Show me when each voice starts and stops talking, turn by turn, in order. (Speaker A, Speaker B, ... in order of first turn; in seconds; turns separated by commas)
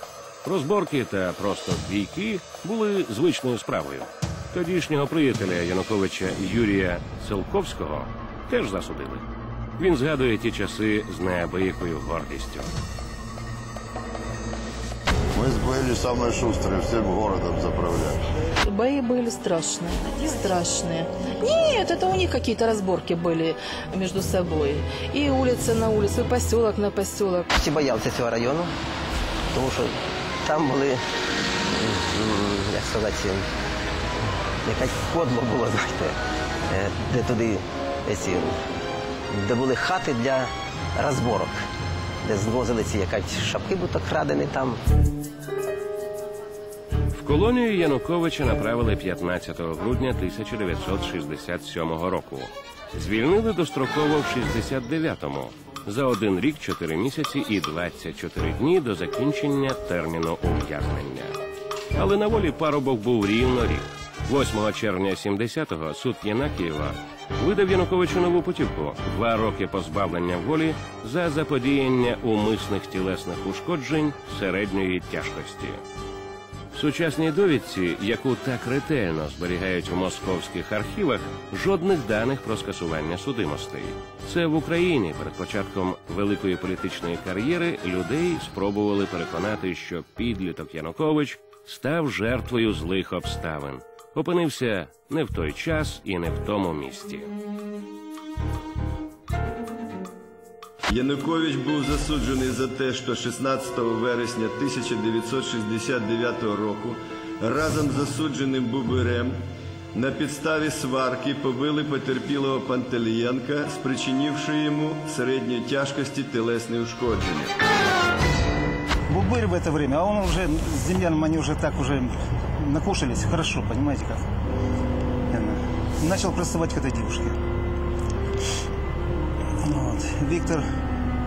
Speaker A: 0.4-9.2, Speaker A: 9.8-12.7, Speaker B: 15.3-18.2, Speaker C: 18.7-27.4, Speaker D: 27.5-28.7, Speaker D: 29.5-31.0, Speaker D: 31.8-33.5, Speaker D: 34.6-36.2, Speaker D: 36.7-38.5, Speaker D: 39.3-41.6, Speaker D: 42.2-44.8, Speaker A: 47.1-61.4, Speaker A: 62.0-75.8, Speaker A: 76.7-97.3, Speaker E: 100.9-109.4, Speaker E: 110.0-117.5, Speaker F: 119.1-124.2, Speaker F: 125.3-127.4, Speaker F: 129.6-130.7